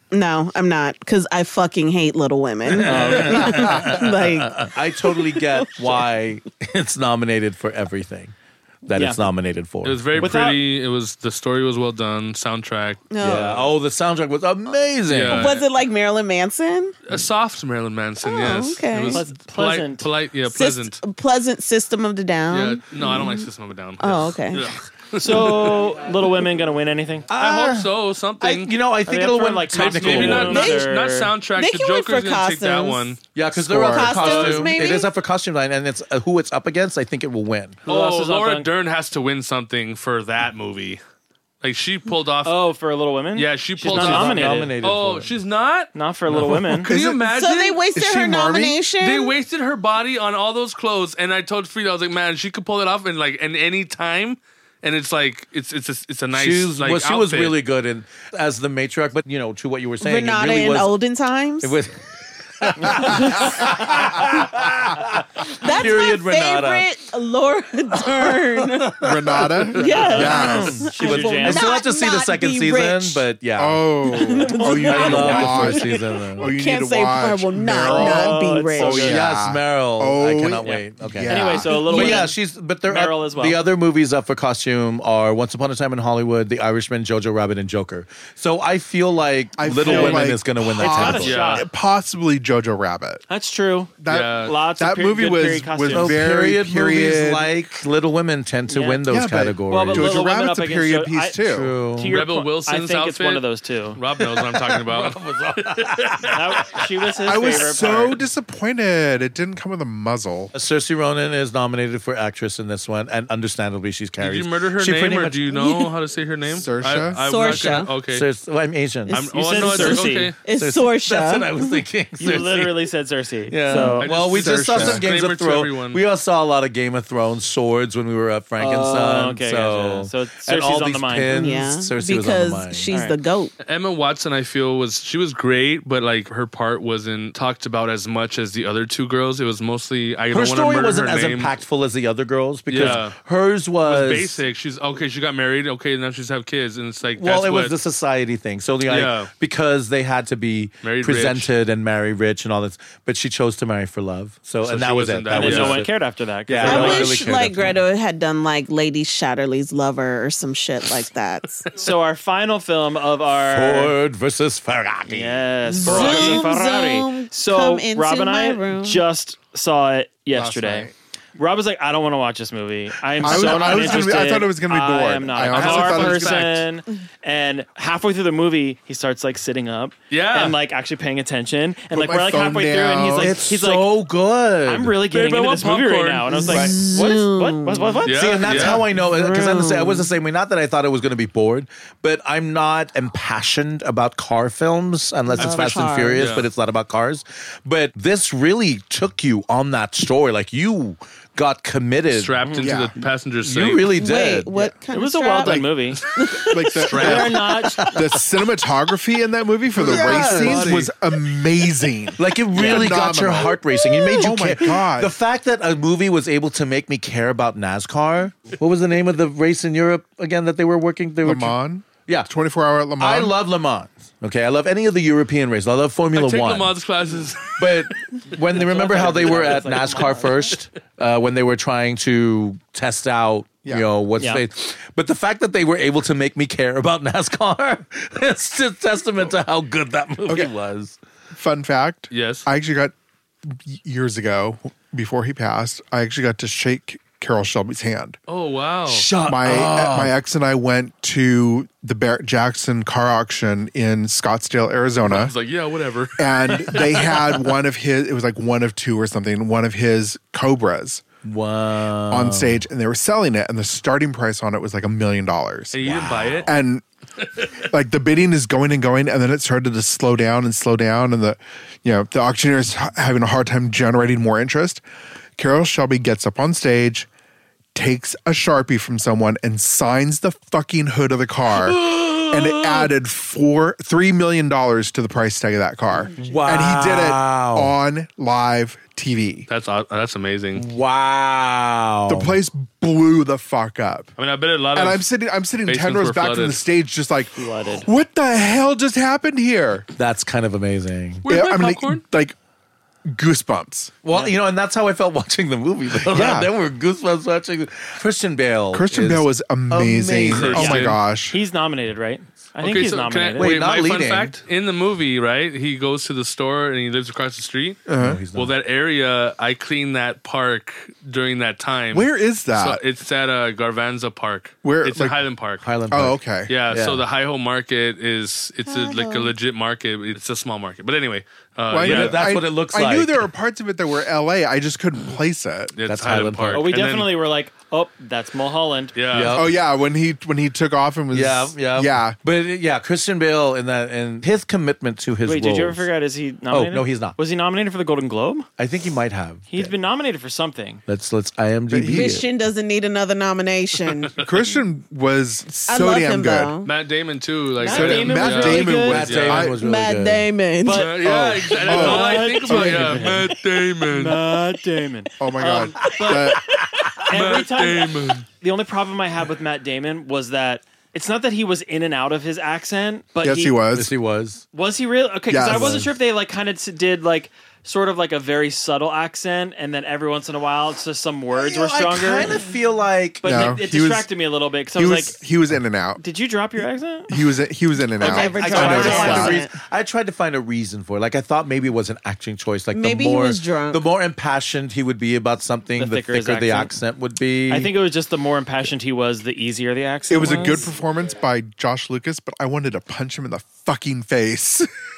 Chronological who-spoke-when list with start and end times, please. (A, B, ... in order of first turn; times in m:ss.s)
0:00.1-0:06.0 A
0:02.6-0:08.3 B
0:02.8-0:03.8 C
0:08.8-0:10.4 B
0:08.9-0:09.2 C
0:09.8-0:13.4 D
0:10.2-0:10.6 C
0:13.1-0:13.6 A
0:13.2-0:15.5 B
0:15.1-0:15.6 D
0:15.3-0:17.0 A
0:17.1-0:21.0 D
0:18.2-0:19.2 A
0:19.1-0:20.1 C
0:20.5-0:23.5 A
0:22.5-0:25.8 D
0:24.0-0:24.7 A
0:25.2-0:27.3 C
0:27.3-0:30.7 B
0:27.3-0:28.7 D
0:29.0-0:31.3 C
0:29.7-0:33.2 D
0:30.4-0:30.9 A
0:31.6-0:33.1 A
0:33.3-0:37.8 B
0:33.5-0:34.6 E
0:33.7-0:35.1 A
0:34.2-0:34.6 D
0:37.8-0:38.7 C
0:37.8-0:41.0 D
0:41.6-0:42.6 D
0:42.4-0:44.7 C
0:43.3-0:45.9 D
0:43.9-0:45.3 B
0:45.9-0:46.9 C
0:46.3-0:46.6 B
0:46.8-0:47.8 D
0:46.8-0:47.2 E
0:47.3-0:49.3 A
0:47.9-0:48.8 E
0:48.9-0:57.5 D
0:56.3-1:00.9 B
1:00.0-1:01.7 A
1:01.6-1:02.0 B
1:02.6-1:06.9 B
1:03.0-1:03.6 A
1:05.5-1:13.2 A
1:07.9-1:16.5 B
1:09.0-1:10.9 E
1:09.8-1:11.8 C
1:13.6-1:21.8 E
1:14.1-1:19.1 A
1:14.2-1:15.7 C
1:17.9-1:19.2 C
1:19.0-1:31.3 B
1:20.6-1:23.6 C
1:21.7-1:22.3 A
1:29.6-1:33.2 E
1:29.8-1:31.7 C
1:31.2-1:31.7 D
1:33.3-1:36.2 C
1:34.0-1:37.5 E
1:34.1-1:34.5 D
1:35.9-1:40.2 B
1:38.7-1:39.0 C
1:39.1-1:41.8 E
1:39.7-1:44.0 C
1:41.4-1:42.2 B
1:42.0-1:46.4 D
1:44.2-1:46.9 B
1:46.3-1:48.2 C
1:47.2-1:50.5 E
1:50.5-1:55.6 B
1:54.2-1:58.2 D
1:55.5-1:55.9 A
1:56.5-1:57.2 E
1:57.2-1:57.9 A
1:58.1-1:59.2 B
1:59.1-2:01.8 A
1:59.1-2:00.4 D
1:59.3-2:00.3 C
2:00.5-2:02.8 B
2:02.2-2:04.0 C
2:03.5-2:12.9 B
2:03.7-2:04.0 A
2:04.0-2:06.0 D
2:04.3-2:05.0 E
2:08.6-2:11.6 C
2:11.3-2:13.5 A
2:12.9-2:13.2 C
2:13.6-2:21.5 D
2:20.3-2:24.4 B
2:22.7-2:23.2 D
2:23.8-2:27.7 D
2:27.2-2:35.9 B
2:28.8-2:29.3 D
2:30.8-2:31.5 D
2:34.6-2:35.8 D
2:35.3-2:37.2 C
2:36.5-2:37.8 B
2:36.6-2:41.7 A
2:41.7-2:44.0 C
2:43.4-2:46.4 B
2:45.1-3:03.9 C
2:45.7-2:49.0 A
2:45.9-2:46.4 D
2:50.3-2:50.9 E
2:53.2-2:56.6 E
2:53.2-2:54.1 B
2:55.5-2:56.6 D
3:00.1-3:00.6 D
3:01.9-3:03.4 E
3:03.2-3:05.0 B
3:04.6-3:08.8 C
3:05.1-3:06.5 D
3:06.3-3:08.0 A
3:06.4-3:06.8 B
3:08.0-3:08.8 D
3:08.1-3:22.4 B
3:08.9-3:10.1 A
3:15.3-3:16.3 A
3:15.4-3:16.5 D
3:22.1-3:23.9 D
3:22.4-3:22.7 C
3:22.6-3:23.0 E
3:23.4-3:24.7 B
3:23.9-3:26.6 A
3:24.9-3:26.0 C
3:26.4-3:35.1 E
3:26.8-3:27.4 D
3:26.9-3:27.8 C
3:27.6-3:28.2 B
3:29.8-3:30.9 B
3:29.8-3:30.9 D
3:32.2-3:41.5 B
3:32.5-3:33.0 C
3:33.8-3:34.2 A
3:41.2-3:43.3 E
3:43.0-3:46.7 B
3:46.1-3:48.2 D
3:47.6-4:01.0 B
3:48.5-3:50.5 C
4:01.3-4:02.9 E
4:02.1-4:02.4 D
4:03.5-4:08.2 E
4:08.3-4:09.1 D
4:08.9-4:10.1 B
4:09.2-4:15.3 E
4:15.0-4:16.9 D
4:16.2-4:21.0 E
4:16.8-4:17.3 B
4:21.2-4:22.6 B
4:22.1-4:26.8 E
4:25.7-4:26.5 D
4:25.8-4:26.5 B
4:27.2-4:27.6 D
4:27.6-4:34.8 E
4:35.4-4:37.1 E
4:37.7-4:49.5 E
4:41.5-4:42.9 B
4:46.2-4:47.7 B
4:49.5-4:50.6 D
4:50.5-4:52.4 B
4:52.1-4:54.1 E
4:54.2-4:55.0 D
4:54.7-4:59.8 E
4:55.6-4:56.6 D
4:57.4-4:57.9 C
4:59.9-5:01.2 B
5:01.2-5:02.0 D
5:01.3-5:02.3 E
5:03.1-5:04.0 E
5:04.0-5:10.9 B
5:06.0-5:06.5 E
5:08.7-5:11.4 E
5:10.2-5:11.0 D
5:11.3-5:13.6 C
5:12.6-5:25.6 D
5:13.4-5:14.4 B
5:17.9-5:18.2 E
5:18.0-5:18.5 B
5:21.9-5:22.8 E
5:24.6-5:25.2 E
5:25.6-5:27.0 B
5:25.9-5:26.5 E
5:26.5-5:32.4 D
5:28.6-5:29.3 A
5:31.7-5:35.7 E
5:31.8-5:33.2 B
5:35.8-5:37.1 D
5:35.8-5:36.7 B
5:36.5-5:39.0 C
5:38.9-5:39.4 D
5:39.1-5:39.6 B
5:39.3-5:42.2 E
5:41.1-5:45.9 B
5:45.2-5:48.5 C
5:46.5-5:47.2 B
5:48.6-5:49.7 B
5:49.5-5:50.8 C
5:50.9-5:52.3 B
5:51.7-5:52.2 E
5:51.9-5:54.2 A
5:54.2-5:56.6 E
5:55.7-5:56.7 A
5:56.6-5:59.5 D
5:57.6-5:59.0 C
5:57.6-5:59.6 E
5:58.8-6:00.3 B
5:59.5-6:00.9 A
6:00.6-6:03.3 C
6:00.6-6:04.2 D
6:01.0-6:03.3 E
6:03.9-6:13.6 C
6:05.2-6:06.5 E
6:07.1-6:08.2 D
6:13.2-6:13.9 E
6:13.7-6:14.4 B
6:14.5-6:22.5 C
6:15.3-6:15.9 E
6:15.5-6:15.9 B
6:21.3-6:23.6 B
6:23.2-6:25.2 C
6:23.2-6:24.1 E
6:24.8-6:26.0 E
6:26.0-6:27.1 C
6:27.1-6:29.4 E
6:28.0-6:29.5 A
6:28.0-6:29.4 C
6:28.0-6:37.7 B
6:32.7-6:33.8 A
6:35.8-6:36.7 C
6:37.5-6:40.7 C
6:40.1-6:44.7 E